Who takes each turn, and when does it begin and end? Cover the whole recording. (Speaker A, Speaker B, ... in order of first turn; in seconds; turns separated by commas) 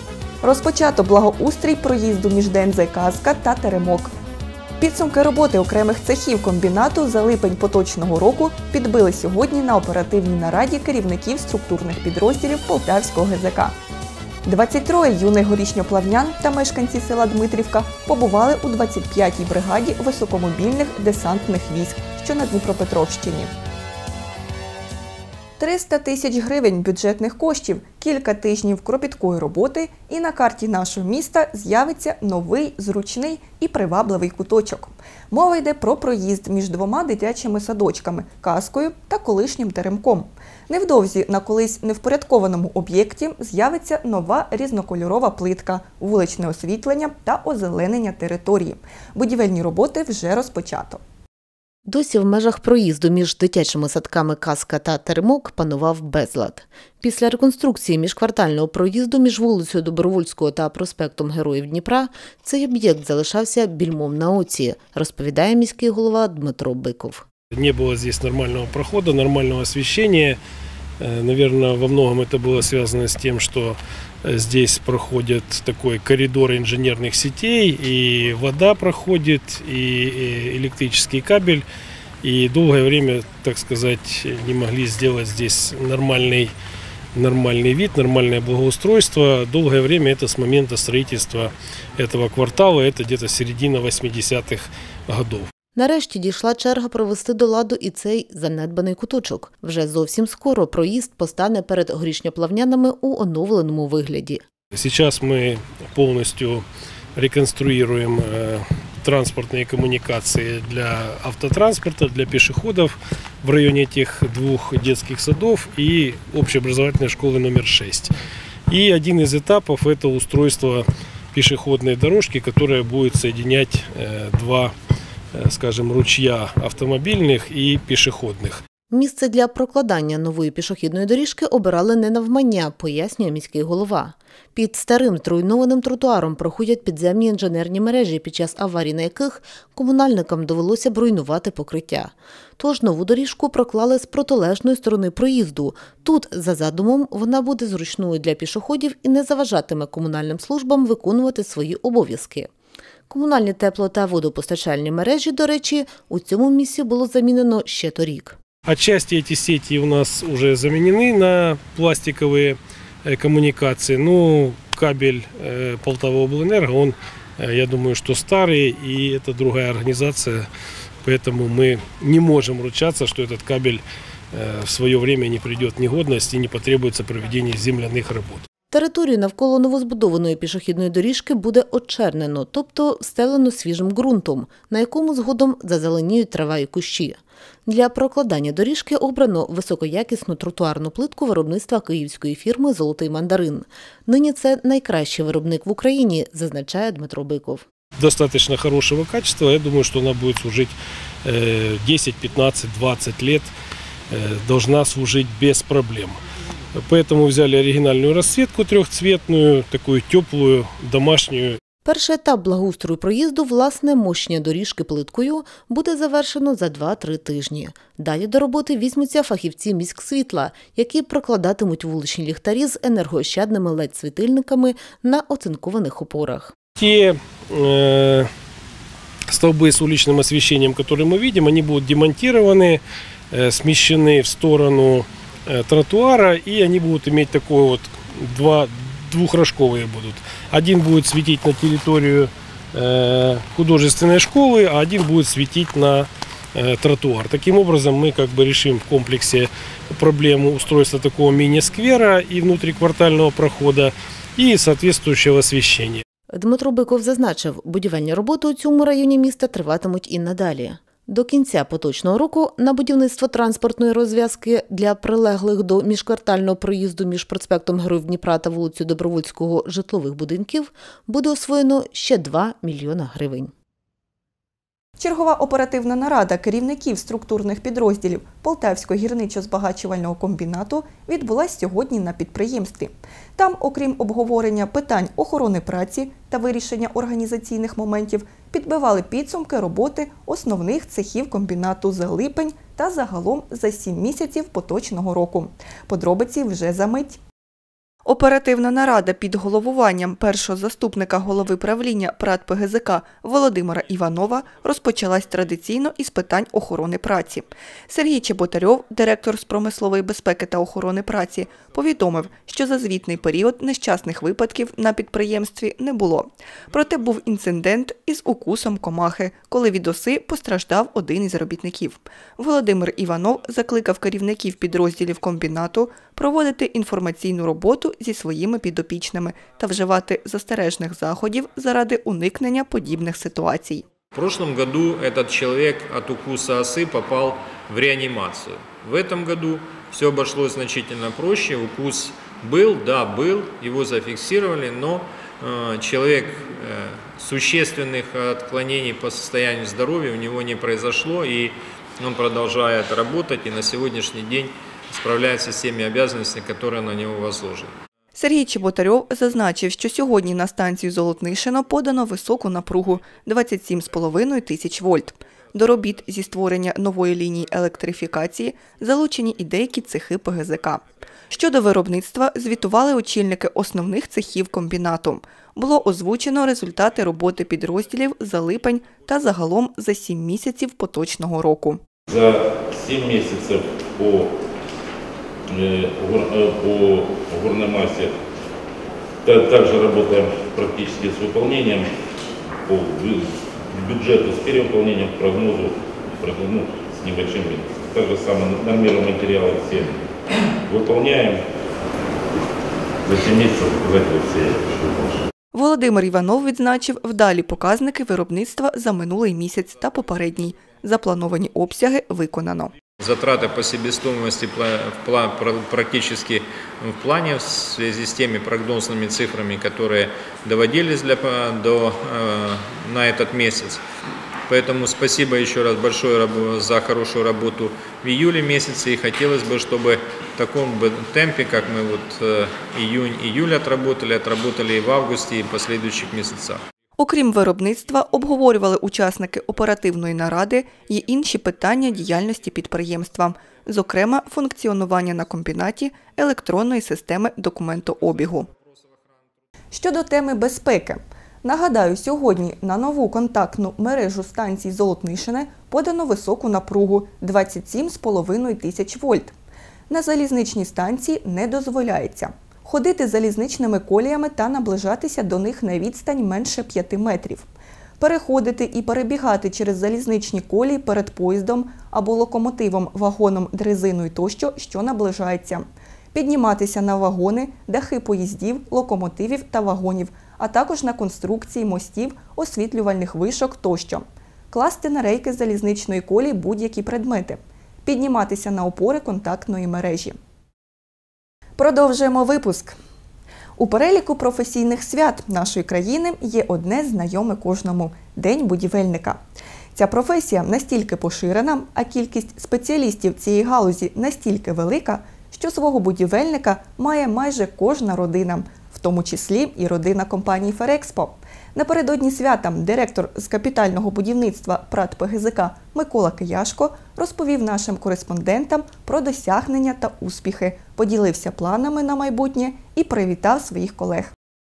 Speaker A: 0.4-4.1, Speaker A: 4.8-13.8, Speaker A: 14.4-23.5, Speaker A: 25.6-51.0, Speaker B: 51.9-67.2, Speaker C: 67.5-70.4, Speaker C: 71.0-81.6, Speaker C: 82.2-86.5, Speaker C: 87.1-95.5, Speaker B: 95.7-104.4, Speaker C: 104.7-106.6, Speaker C: 107.2-118.1, Speaker C: 118.7-124.7, Speaker C: 125.3-128.6, Speaker B: 128.9-152.5, Speaker B: 153.1-158.4, Speaker C: 158.6-170.5, Speaker C: 171.0-173.8, Speaker C: 174.3-178.4, Speaker B: 178.7-197.6, Speaker C: 198.0-203.5, Speaker C: 204.1-206.2, Speaker C: 206.8-211.6, Speaker B: 211.8-226.5, Speaker C: 226.8-228.3, Speaker C: 229.3-256.0, Speaker B: 256.3-273.5, Speaker A: 275.0-297.2, Speaker A: 298.0-333.9, Speaker D: 334.1-357.7, Speaker A: 358.1-381.8, Speaker E: 382.1-384.4, Speaker E: 385.5-388.1, Speaker E: 389.2-391.9, Speaker E: 392.6-400.0, Speaker E: 400.7-401.4, Speaker E: 403.0-405.2, Speaker A: 405.5-412.7, Speaker D: 413.0-423.8, Speaker D: 424.5-436.6, Speaker A: 437.0-448.5, Speaker A: 449.7-459.3, Speaker A: 459.9-467.5, Speaker A: 468.0-490.1, Speaker A: 491.6-492.8, Speaker A: 493.6-499.2, Speaker A: 499.7-524.1